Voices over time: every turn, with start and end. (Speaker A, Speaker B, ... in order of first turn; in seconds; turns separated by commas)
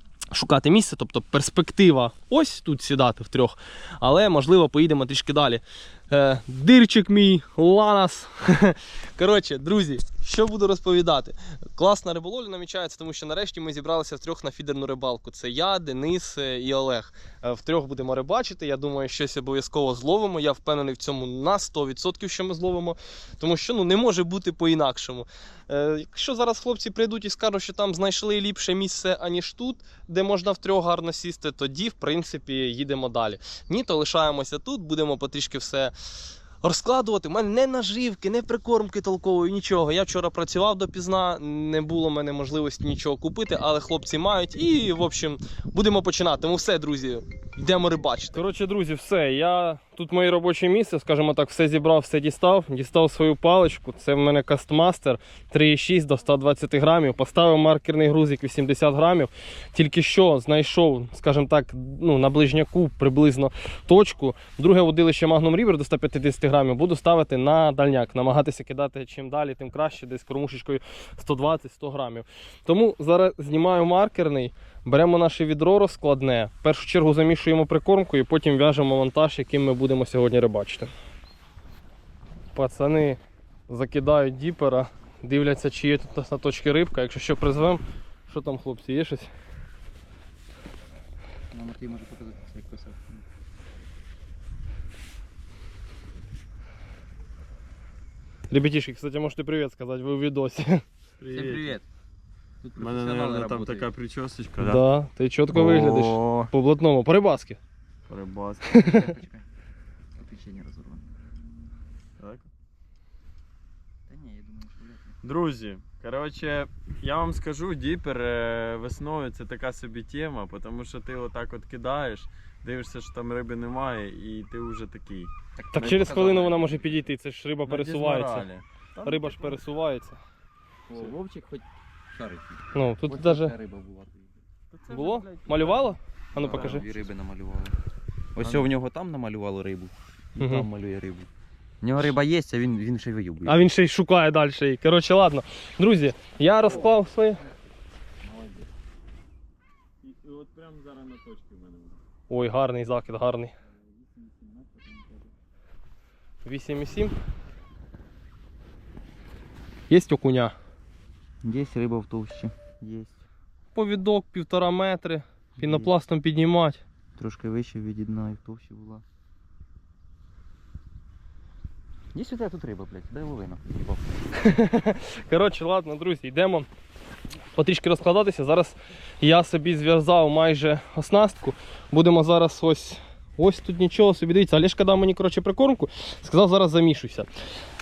Speaker A: 0.3-35.9, Speaker A: 36.6-80.9, Speaker A: 82.5-89.3, Speaker B: 91.5-93.2, Speaker A: 98.5-100.8, Speaker C: 101.2-101.8, Speaker B: 101.3-101.8, Speaker B: 102.6-103.9, Speaker C: 102.8-104.8, Speaker A: 104.6-107.6, Speaker B: 105.5-106.5, Speaker C: 108.1-108.8, Speaker B: 108.7-109.5, Speaker A: 108.8-109.0, Speaker B: 110.2-111.1, Speaker C: 112.2-112.5, Speaker B: 114.1-115.2, Speaker C: 115.2-126.4, Speaker B: 125.6-127.0, Speaker A: 125.7-128.5, Speaker C: 127.7-129.6, Speaker A: 129.0-130.2, Speaker B: 130.9-134.3, Speaker A: 132.7-133.6, Speaker C: 134.7-136.9, Speaker A: 134.9-136.9, Speaker B: 136.3-137.8, Speaker B: 138.3-141.3, Speaker C: 138.4-138.7, Speaker A: 140.4-140.7, Speaker B: 141.8-143.6, Speaker A: 143.4-147.5, Speaker C: 146.6-146.9, Speaker C: 148.2-148.7, Speaker C: 150.0-152.0, Speaker A: 152.3-153.5, Speaker C: 153.8-155.3, Speaker A: 156.4-157.2, Speaker A: 159.9-160.6, Speaker B: 161.4-163.2, Speaker A: 163.8-166.8, Speaker B: 165.6-165.9, Speaker B: 167.2-169.0, Speaker B: 172.1-174.0, Speaker A: 174.4-176.7, Speaker A: 177.5-187.3